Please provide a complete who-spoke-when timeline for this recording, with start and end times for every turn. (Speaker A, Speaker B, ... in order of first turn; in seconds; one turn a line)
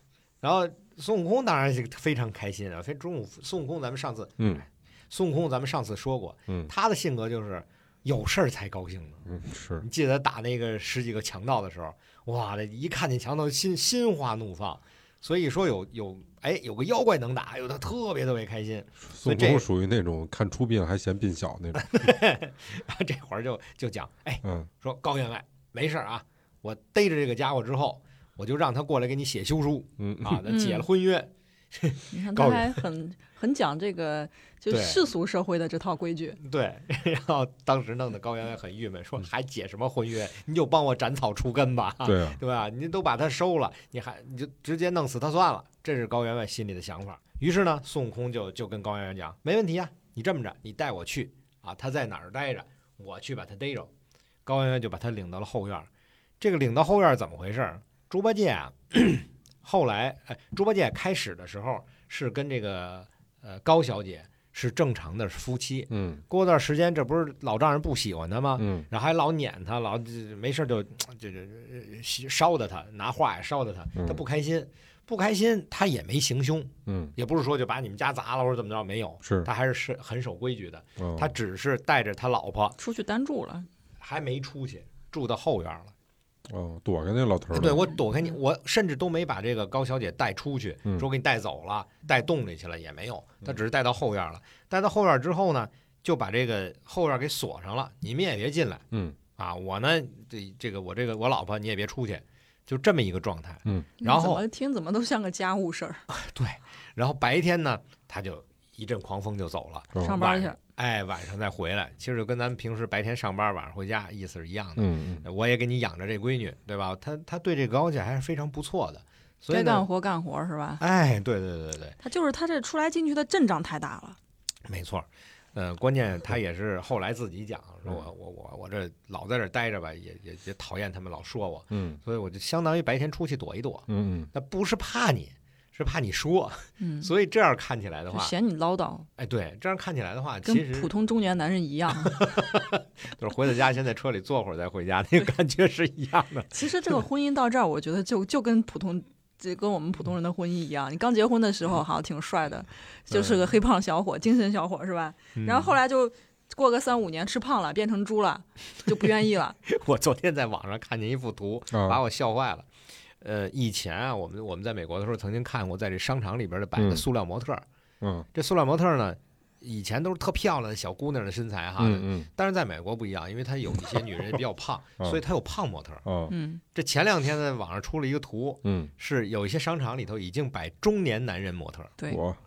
Speaker A: 0.4-9.2
Speaker B: 4.4-4.7
Speaker B: 9.3-9.8
Speaker A: 9.8-19.6
Speaker B: 19.1-22.1
Speaker A: 21.8-32.8
Speaker B: 24.4-24.7
Speaker B: 30.0-30.4
Speaker C: 30.5-30.9
Speaker C: 32.1-36.4
Speaker A: 34.7-35.0
Speaker A: 36.4-53.9
Speaker B: 42.0-42.4
Speaker A: 54.5-55.9
Speaker A: 56.4-82.8
Speaker B: 65.9-66.2
Speaker B: 68.6-68.9
Speaker B: 74.0-74.2
Speaker B: 76.9-77.1
Speaker B: 79.2-79.5
Speaker B: 81.0-81.3
Speaker C: 82.8-83.7
Speaker A: 84.0-85.9
Speaker B: 86.5-87.9
Speaker A: 87.5-98.8
Speaker B: 98.9-99.2
Speaker A: 99.4-104.4
Speaker C: 104.0-106.0
Speaker A: 106.1-119.8
Speaker C: 110.0-110.6
Speaker B: 114.8-115.2
Speaker C: 119.5-120.8
Speaker A: 120.8-122.0
Speaker C: 122.0-124.2
Speaker A: 124.7-138.3
Speaker B: 131.7-132.0
Speaker B: 133.9-134.3
Speaker C: 136.8-137.1
Speaker C: 138.1-139.1
Speaker A: 139.2-140.9
Speaker C: 140.4-142.3
Speaker A: 142.1-147.0
Speaker C: 146.5-159.6
Speaker A: 153.1-153.5
Speaker A: 155.4-155.8
Speaker A: 159.7-162.7
Speaker B: 161.7-162.0
Speaker A: 163.2-167.6
Speaker B: 166.8-167.1
Speaker B: 168.0-168.3
Speaker A: 168.3-176.0
Speaker B: 171.8-172.3
Speaker B: 176.1-176.3
Speaker C: 176.3-176.6
Speaker A: 176.7-181.9
Speaker B: 178.7-178.9
Speaker B: 182.1-182.4